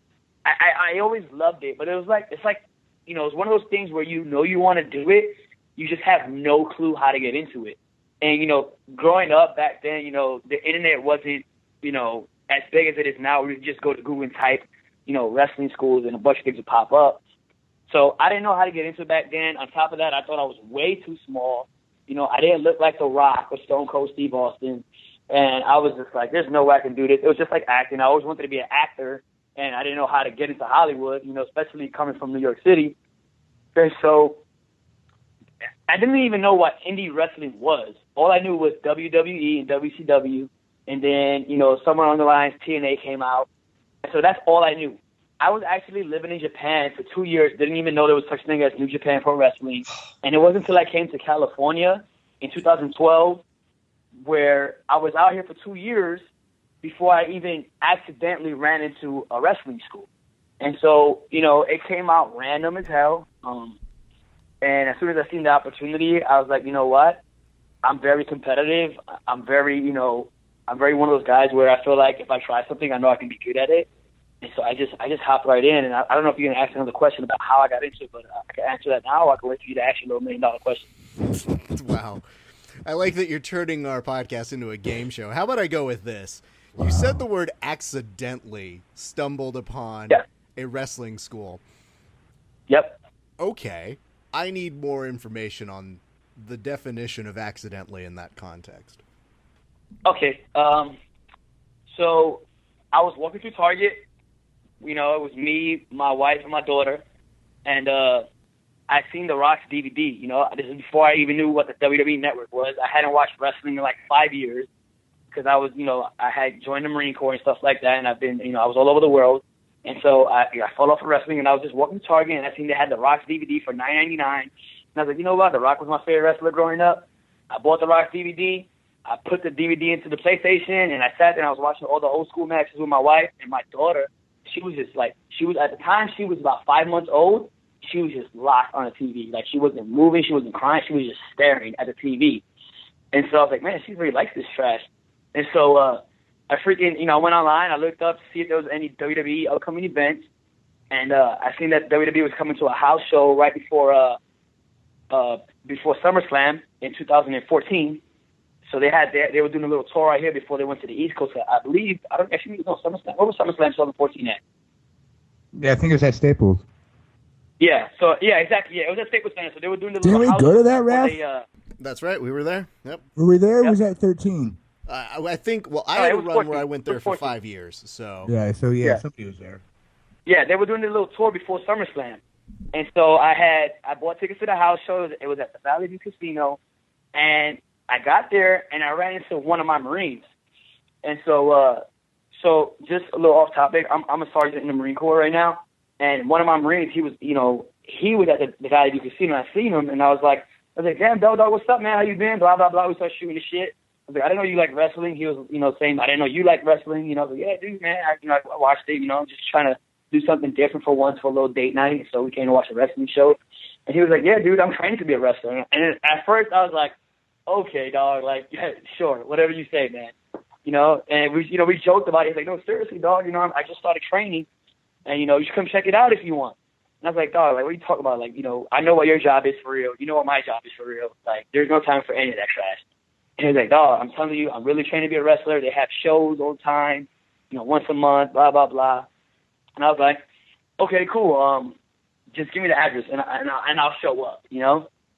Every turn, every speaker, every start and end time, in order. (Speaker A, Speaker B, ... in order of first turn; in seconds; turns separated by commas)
Speaker A: 0.5-17.2, Speaker A: 17.9-33.0, Speaker A: 33.8-34.4, Speaker A: 35.9-43.5, Speaker A: 44.0-53.4, Speaker A: 54.2-56.2, Speaker A: 56.8-60.1, Speaker A: 60.6-63.8, Speaker A: 64.6-67.2, Speaker A: 67.8-73.9, Speaker A: 74.4-80.9, Speaker B: 81.3-82.2, Speaker B: 82.8-91.6, Speaker A: 92.7-93.0, Speaker B: 93.4-99.0, Speaker A: 100.0-101.0, Speaker A: 101.9-104.0, Speaker A: 104.8-107.0, Speaker A: 107.7-108.3, Speaker A: 108.9-114.7, Speaker A: 115.3-142.4, Speaker A: 143.1-150.2, Speaker A: 150.9-154.2, Speaker A: 155.1-158.0, Speaker A: 158.7-164.4, Speaker C: 165.5-166.6, Speaker A: 167.6-171.4, Speaker C: 170.0-171.2, Speaker B: 171.8-173.0, Speaker C: 173.2-174.6, Speaker B: 174.9-178.3, Speaker A: 175.9-177.3, Speaker C: 178.2-179.6, Speaker A: 180.3-182.2, Speaker A: 182.7-186.6, Speaker A: 187.2-190.2, Speaker A: 191.0-191.8, Speaker A: 192.4-216.9, Speaker A: 217.5-220.1, Speaker A: 220.7-224.5, Speaker A: 225.1-232.8, Speaker A: 233.4-239.1, Speaker A: 239.8-240.2, Speaker A: 240.8-241.8, Speaker A: 242.3-244.9